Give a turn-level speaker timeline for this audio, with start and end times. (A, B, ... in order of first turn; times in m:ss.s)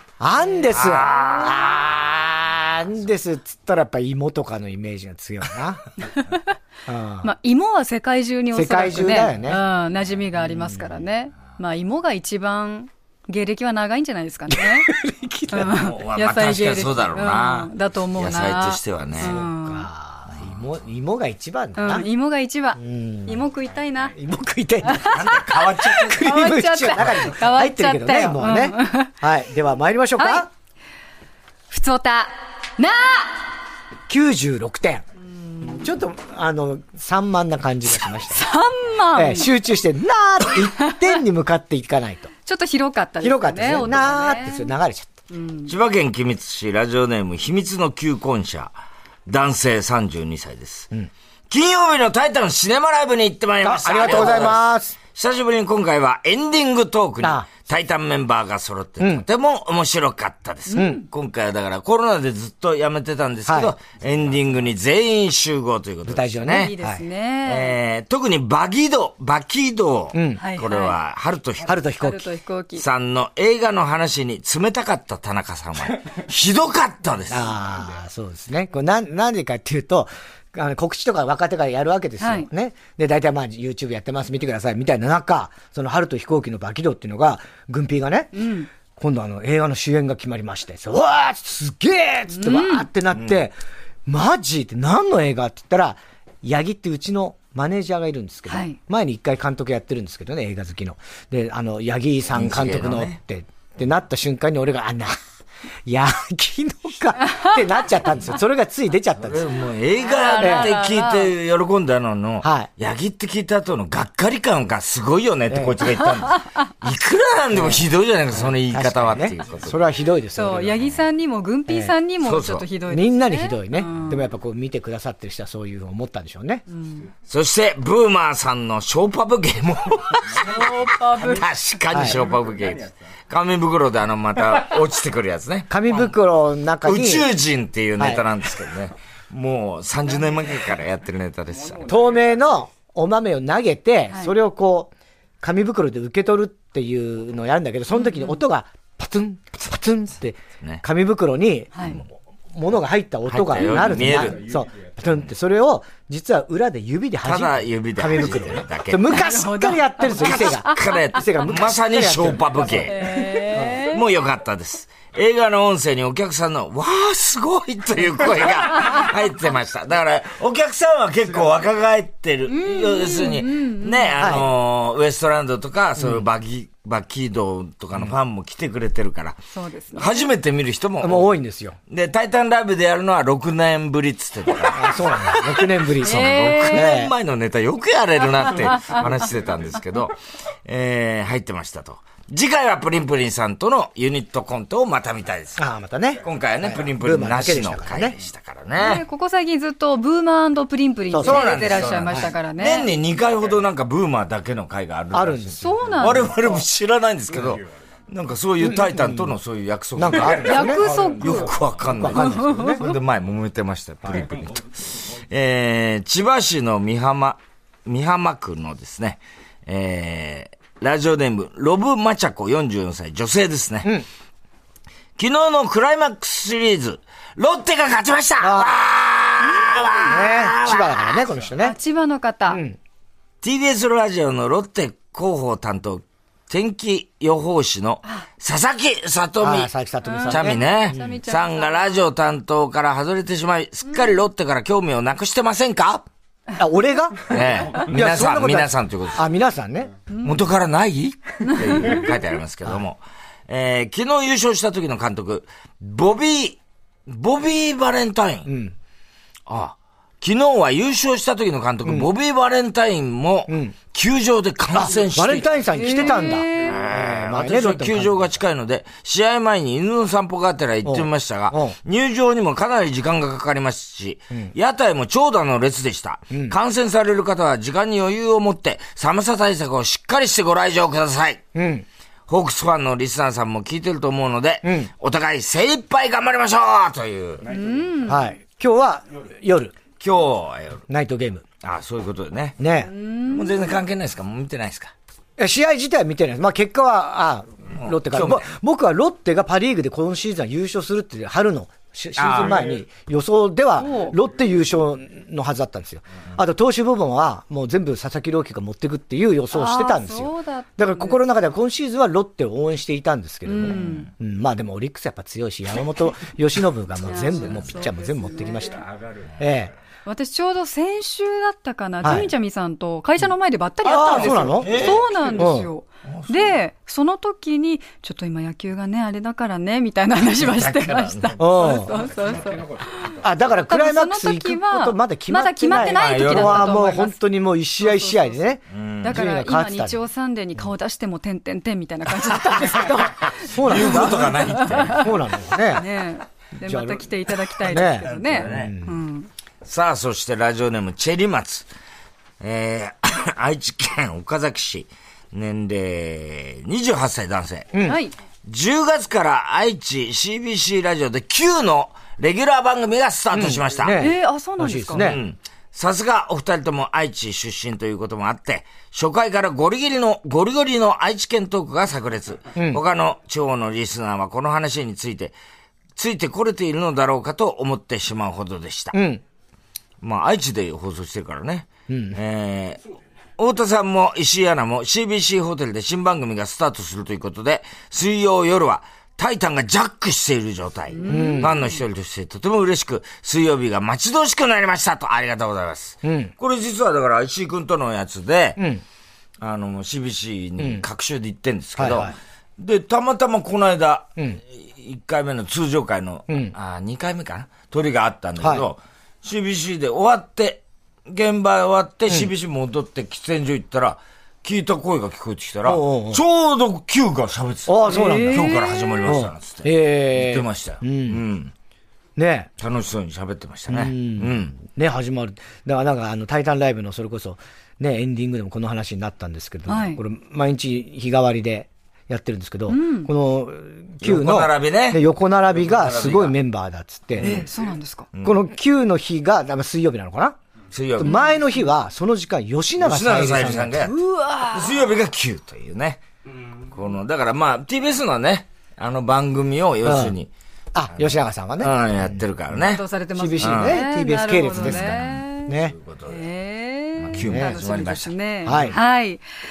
0:00.2-0:05.8 A
0:00.4-0:00.7 B
0:00.7-0:02.1 C
0:06.1-0:06.4 B
0:06.9-0:07.3 A
0:07.2-0:14.9 B
0:08.5-0:09.6 A
0:10.4-0:10.8 A
0:14.5-0:15.8 A
0:15.5-0:19.9 B
0:15.7-0:19.4 C
0:19.2-0:22.1 A
0:21.8-0:24.1 B
0:22.8-0:23.4 A
0:24.1-0:30.5 A
0:24.8-0:29.1 B
0:25.1-0:26.3 C
0:30.2-0:30.4 B
0:31.7-0:33.4 B
0:34.1-0:35.0 A
0:35.5-0:35.8 B
0:35.6-0:38.5 A
0:38.3-0:39.5 B
0:39.1-0:42.3 A
0:42.4-0:44.7 B
0:43.2-0:45.1 A
0:45.3-0:45.7 B
0:45.7-0:48.7 C
0:49.2-0:50.9 C
0:51.5-1:06.7 C
0:53.6-0:55.0 A
0:57.2-0:57.5 A
0:59.0-0:59.2 A
1:00.7-1:01.0 B
1:00.8-1:01.0 A
1:03.4-1:03.7 A
1:06.1-1:07.0 A
1:06.4-1:07.8 B
1:07.4-1:11.8 C
1:10.1-1:10.4 A
1:10.4-1:10.9 B
1:11.6-1:12.3 A
1:12.0-1:12.8 B
1:12.8-1:17.5 C
1:17.3-1:28.4 A
1:22.2-1:22.5 B
1:28.3-1:28.7 B
1:28.9-1:45.2 A
1:32.3-1:32.9 B
1:38.5-1:38.8 B
1:42.3-1:43.2 C
1:45.8-1:49.5 A
1:47.2-1:47.6 B
1:49.2-1:59.8 C
1:50.0-1:51.3 B
1:50.4-1:50.7 A
1:52.4-1:52.7 A
1:55.5-1:55.8 A
1:57.5-1:57.9 A
1:58.4-2:00.8 A
2:00.3-2:04.2 B
2:01.7-2:01.9 A
2:02.2-2:02.7 C
2:02.9-2:06.6 A
2:06.7-2:07.1 B
2:07.3-2:16.1 C
2:10.3-2:11.5 B
2:11.9-2:12.2 A
2:15.7-2:17.3 A
2:16.8-2:21.9 C
2:18.0-2:18.2 A
2:21.8-2:42.9 A
2:28.0-2:28.4 B
2:31.7-2:32.0 B
2:33.3-2:34.4 C
2:37.2-2:39.1 C
2:39.1-2:40.8 B
2:40.2-2:59.4 C
2:42.7-2:44.0 B
2:43.5-2:43.8 A
2:52.5-2:54.2 B
2:54.2-2:54.5 A
2:56.0-2:56.2 A
2:59.5-3:00.2 B
2:59.9-3:01.3 C
3:01.0-3:01.8 A
3:01.9-3:10.2 C
3:04.7-3:07.1 A
3:06.0-3:06.9 B
3:10.7-3:15.7 C
3:15.6-3:18.2 A
3:16.2-3:19.0 C
3:18.8-3:22.9 B
3:21.1-3:22.3 A
3:21.2-3:44.0 C
3:25.1-3:26.2 A
3:25.6-3:26.6 B
3:28.6-3:29.3 A
3:30.0-3:30.9 A
3:30.4-3:31.5 B
3:31.9-3:32.9 A
3:32.2-3:32.8 B
3:45.2-3:51.2 C
3:48.4-3:48.7 A
3:50.0-3:51.8 A
3:51.6-3:52.6 B
3:52.5-3:52.8 A
3:53.4-3:59.7 C
3:59.4-4:01.0 A
4:00.0-4:01.9 B
4:00.3-4:06.1 C
4:06.6-4:10.0 A
4:07.3-4:09.2 C
4:10.2-4:18.5 C
4:18.4-4:18.7 A
4:19.5-4:41.4 C
4:21.8-4:22.1 A
4:23.5-4:23.7 A
4:24.7-4:28.4 A
4:25.7-4:26.8 B
4:30.8-4:31.8 A
4:36.3-4:36.6 A
4:41.6-4:41.8 A
4:42.3-4:47.4 C
4:44.6-4:44.9 A
4:47.5-4:48.2 B
4:48.1-4:49.8 A
4:50.0-4:50.8 C
4:50.9-4:51.4 A
4:51.6-4:52.6 C
4:52.6-4:52.9 A
4:52.8-4:53.7 B
4:53.3-4:54.9 C
4:55.4-5:18.8 A
4:57.8-4:58.4 C
5:02.2-5:02.8 C
5:03.8-5:04.2 B
5:09.5-5:11.2 B
5:13.4-5:14.1 B
5:13.7-5:14.0 C
5:17.1-5:18.7 B
5:19.4-5:19.7 A
5:20.1-5:37.2 B
5:22.0-5:22.3 A
5:23.8-5:25.7 A
5:23.9-5:25.5 C
5:26.1-5:26.5 C
5:30.4-5:31.4 C
5:31.4-5:31.9 A
5:33.2-5:40.0 A
5:35.8-5:36.8 C
5:37.8-5:38.4 B
5:38.7-5:39.2 C
5:39.0-5:45.1 B
5:43.4-5:45.1 C
5:43.4-5:45.9 A
5:45.7-5:49.3 B
5:46.6-5:47.1 A
5:47.6-5:49.0 A
5:47.8-5:48.7 C
5:49.6-5:51.7 C
5:52.4-5:57.8 C
5:57.7-5:58.0 A
5:57.8-5:58.2 B
5:58.4-6:04.0 C
6:03.3-6:05.2 A
6:04.0-6:05.1 B
6:04.9-6:15.4 C
6:12.6-6:12.8 A
6:16.0-6:19.0 C
6:18.9-6:19.2 A
6:20.0-6:22.8 C
6:21.9-6:22.2 A
6:23.4-6:38.6 C
6:30.9-6:31.7 B
6:31.1-6:31.6 A
6:36.0-6:36.3 A
6:38.6-6:38.8 A
6:39.4-7:01.5 C
6:40.6-6:40.8 A
6:41.8-6:42.1 A
6:46.3-6:46.6 A
6:48.4-6:48.6 A
6:55.6-6:56.2 A
6:57.7-7:01.2 A
6:57.8-6:59.0 B
7:02.2-7:02.5 A
7:02.6-7:04.6 C
7:03.7-7:17.4 A
7:09.7-7:10.0 B
7:12.7-7:13.1 B
7:14.0-7:15.0 C
7:15.6-7:16.4 C
7:17.2-7:17.5 C
7:17.2-7:18.1 B
7:18.2-7:20.4 A
7:20.7-7:21.2 C
7:21.0-7:23.9 A
7:21.0-7:21.4 B
7:22.8-7:24.0 C
7:23.8-7:24.8 B
7:24.5-7:26.0 C
7:26.7-7:30.3 C
7:29.8-7:30.2 A
7:30.7-7:32.2 A
7:31.0-7:32.8 C
7:32.6-7:35.5 B
7:33.2-7:35.8 A
7:33.4-7:33.8 C
7:34.5-7:36.2 C
7:36.1-7:39.2 B
7:37.0-7:38.8 C
7:37.2-7:37.6 A
7:38.4-7:38.8 A